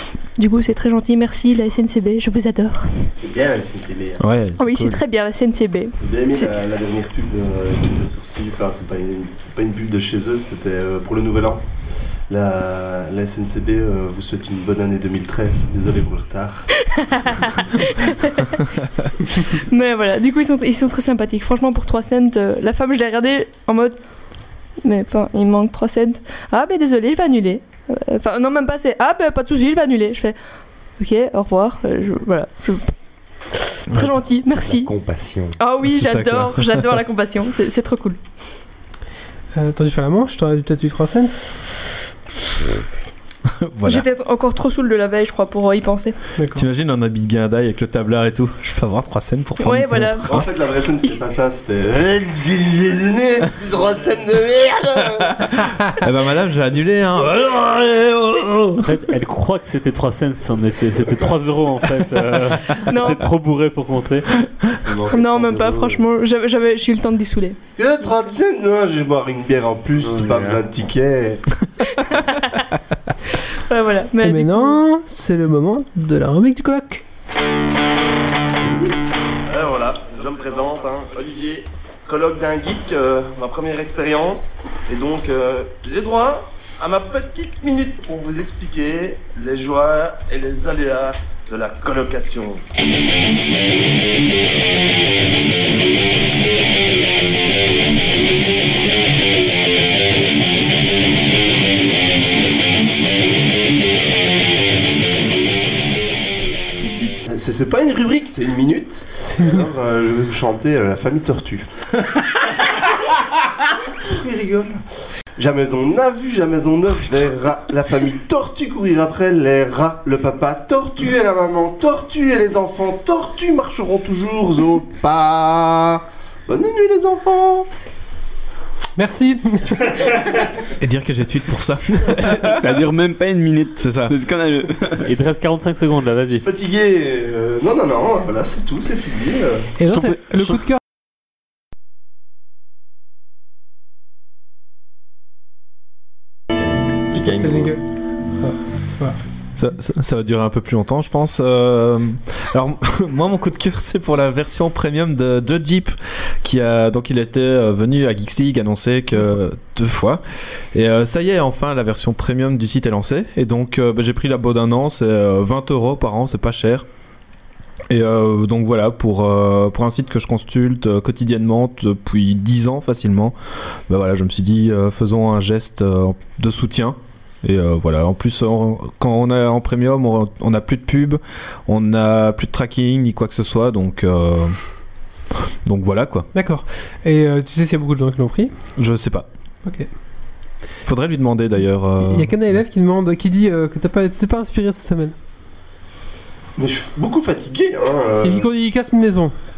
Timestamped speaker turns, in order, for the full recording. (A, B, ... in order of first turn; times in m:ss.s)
0:00.4-0:02.9 A
0:03.2-0:04.2 B
0:04.2-0:05.0 C
0:04.6-0:06.5 A
0:06.0-0:11.6 B
0:12.3-0:16.7 B
0:16.7-0:18.7 A
0:19.3-0:24.0 A
0:24.8-0:30.3 A
0:31.0-0:32.9 A
0:33.6-0:34.9 A
0:34.6-0:35.6 D
0:35.6-0:38.2 A
0:35.9-0:36.8 C
0:39.6-0:41.5 E
0:43.6-0:44.0 C
0:43.8-0:46.1 A
0:46.4-0:46.6 E
0:46.5-0:50.5 C
0:49.6-0:50.4 A
0:50.2-0:55.4 B
0:55.4-0:58.9 C
0:58.8-1:04.3 F
1:02.8-1:03.2 A
1:04.9-1:06.0 D
1:05.1-1:08.1 A
1:07.8-1:11.4 B
1:10.0-1:10.6 F
1:11.9-1:12.6 A
1:13.6-1:14.8 A
1:14.2-1:17.0 E
1:19.4-1:32.6 B
1:47.0-1:51.7 B
1:54.0-1:54.8 B
1:55.4-2:07.7 B
2:09.0-2:10.0 E
2:10.8-2:12.5 C
2:12.3-2:15.1 G
2:13.8-2:14.1 C
2:15.0-2:16.4 F
2:16.4-2:19.7 B
2:19.8-2:20.8 E
2:19.9-2:20.2 G
2:26.9-2:27.8 D
2:27.2-2:27.8 E
2:28.4-2:29.2 E
2:29.6-2:40.2 C
2:40.7-2:46.8 C
2:47.9-2:53.3 C
2:53.9-3:04.6 C
3:05.6-3:06.3 C
3:06.3-3:08.5 E
3:08.8-3:09.3 C
3:10.8-3:12.5 C
3:12.0-3:15.1 E
3:16.6-3:18.5 B
3:18.2-3:19.3 E